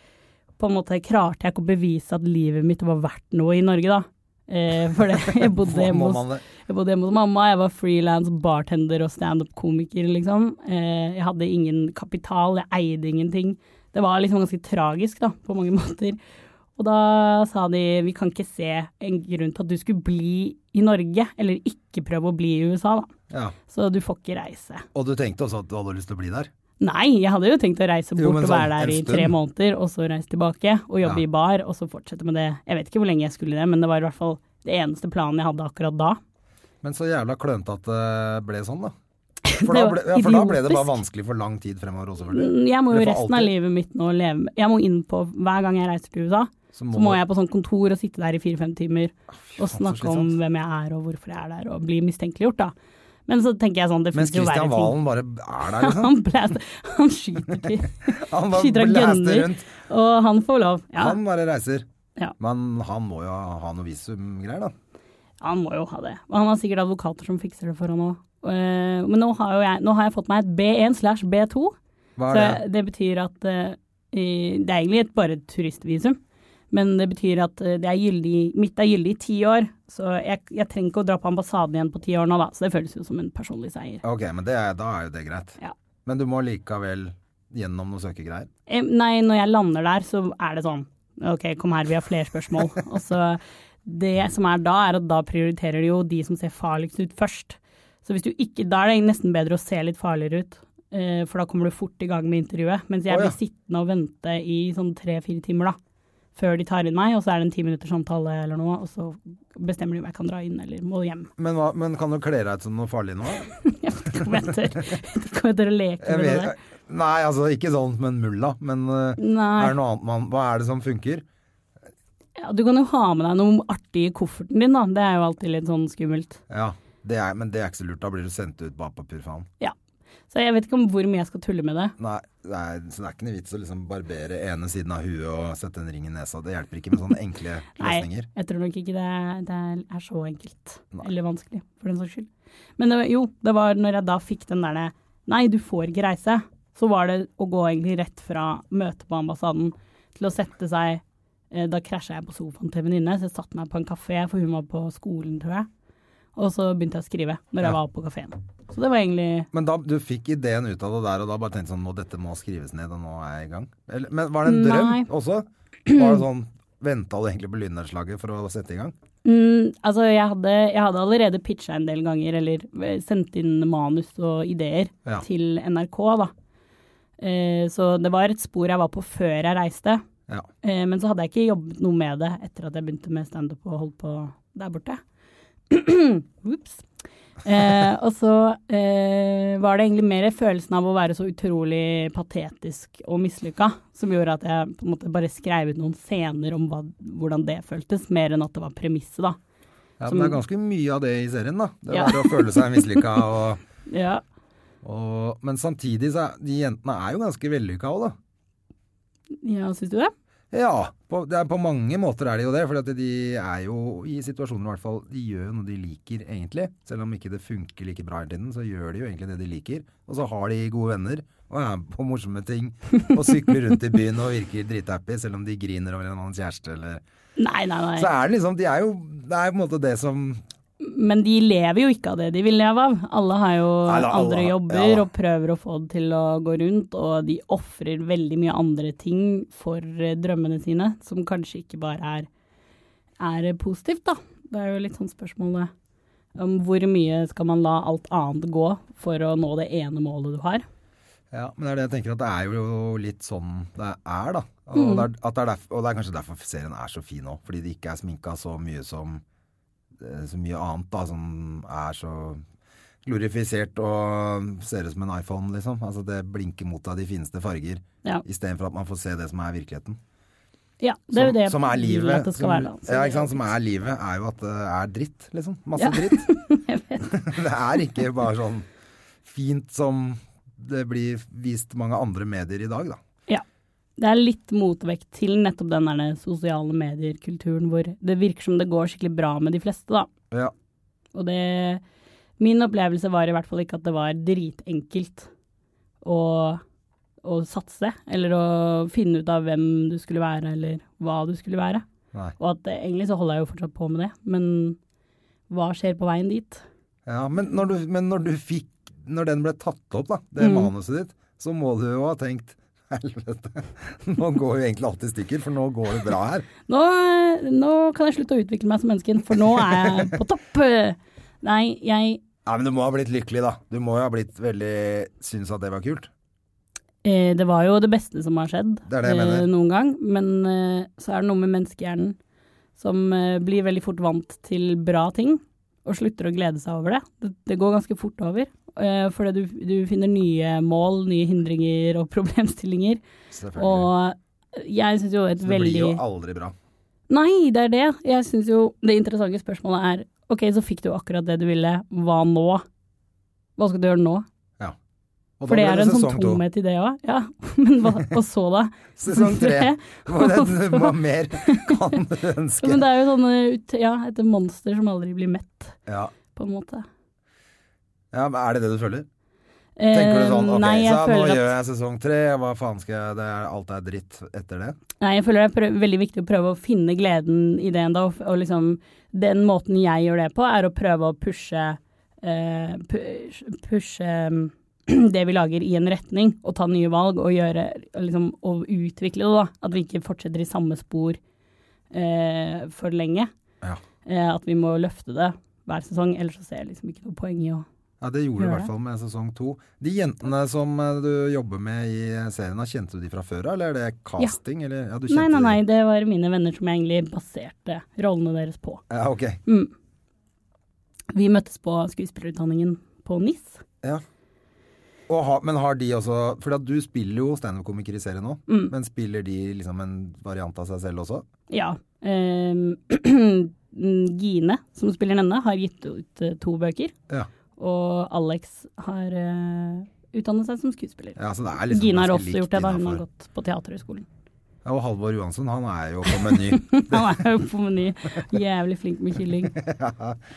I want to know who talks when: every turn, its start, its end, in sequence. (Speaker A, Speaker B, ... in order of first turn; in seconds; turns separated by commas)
Speaker A: 0.6-16.2, Speaker B: 5.1-6.4, Speaker A: 16.8-23.1, Speaker B: 23.3-23.6, Speaker A: 23.7-24.9, Speaker B: 24.9-26.5, Speaker A: 26.8-36.2, Speaker B: 28.2-29.3, Speaker B: 36.8-38.9, Speaker A: 39.5-41.0, Speaker B: 39.6-43.5, Speaker A: 42.3-52.7, Speaker B: 46.7-47.2, Speaker B: 49.5-50.3, Speaker A: 53.3-55.0, Speaker B: 54.1-56.1, Speaker A: 55.8-61.2, Speaker B: 58.1-59.7, Speaker B: 61.0-61.9, Speaker B: 62.4-64.7, Speaker A: 65.4-71.8, Speaker B: 72.2-72.6, Speaker A: 72.3-76.2, Speaker A: 76.7-84.0, Speaker B: 84.0-88.5, Speaker A: 88.7-105.8, Speaker B: 103.1-103.4, Speaker A: 106.3-111.3, Speaker B: 111.4-113.5, Speaker A: 113.6-116.5, Speaker B: 114.1-114.5, Speaker B: 116.0-121.2, Speaker A: 119.2-119.8, Speaker A: 122.4-126.4, Speaker B: 126.5-129.5, Speaker A: 130.3-131.9, Speaker B: 132.0-138.3, Speaker A: 137.8-155.7, Speaker A: 156.4-159.5, Speaker B: 159.5-168.9, Speaker A: 164.4-165.1, Speaker A: 165.9-166.2, Speaker A: 169.2-176.3, Speaker A: 177.2-180.0, Speaker A: 180.6-185.0, Speaker A: 185.7-186.8, Speaker A: 187.4-199.4, Speaker B: 200.0-203.6, Speaker A: 200.1-200.4, Speaker A: 201.9-203.1, Speaker A: 203.9-204.2, Speaker B: 204.8-208.2, Speaker A: 209.4-210.1, Speaker B: 210.5-227.0, Speaker A: 227.4-228.1, Speaker B: 228.0-230.4, Speaker A: 230.8-242.3, Speaker B: 233.8-235.1, Speaker A: 243.2-245.7, Speaker A: 246.4-250.7, Speaker B: 251.3-259.2, Speaker A: 254.7-255.1, Speaker B: 260.0-262.4, Speaker B: 263.1-270.0, Speaker A: 270.8-273.5, Speaker B: 271.1-276.3, Speaker A: 275.8-277.1, Speaker B: 277.1-278.7, Speaker B: 279.2-283.0, Speaker A: 284.0-290.1, Speaker A: 291.1-291.8, Speaker A: 292.4-295.3, Speaker A: 296.0-296.6, Speaker A: 297.2-301.8, Speaker A: 302.4-304.8, Speaker A: 305.5-306.6, Speaker B: 307.1-316.5, Speaker A: 310.4-310.7, Speaker A: 316.7-322.2, Speaker B: 319.5-320.1, Speaker B: 322.4-326.1, Speaker A: 327.0-332.2, Speaker B: 328.9-329.5, Speaker A: 332.8-343.0, Speaker B: 343.3-343.9, Speaker A: 343.6-346.0, Speaker B: 345.4-346.6, Speaker A: 347.1-352.6, Speaker A: 353.6-354.3, Speaker B: 355.4-356.4, Speaker A: 355.5-361.8, Speaker B: 359.0-362.9, Speaker A: 362.6-365.8, Speaker B: 365.9-366.1, Speaker A: 366.4-366.9, Speaker B: 368.1-369.1, Speaker A: 369.8-371.5, Speaker B: 369.9-374.8, Speaker A: 375.0-391.2, Speaker A: 391.9-393.3, Speaker A: 394.1-397.6, Speaker B: 398.0-405.6, Speaker A: 398.4-398.7, Speaker A: 405.1-408.8, Speaker B: 408.9-409.4, Speaker A: 409.5-409.7, Speaker A: 411.1-413.6, Speaker B: 415.1-421.2, Speaker A: 418.5-418.7, Speaker A: 421.5-426.9, Speaker A: 427.6-431.2, Speaker B: 431.2-433.0, Speaker A: 431.7-434.1, Speaker B: 434.6-437.2, Speaker A: 436.3-439.6, Speaker B: 439.5-440.2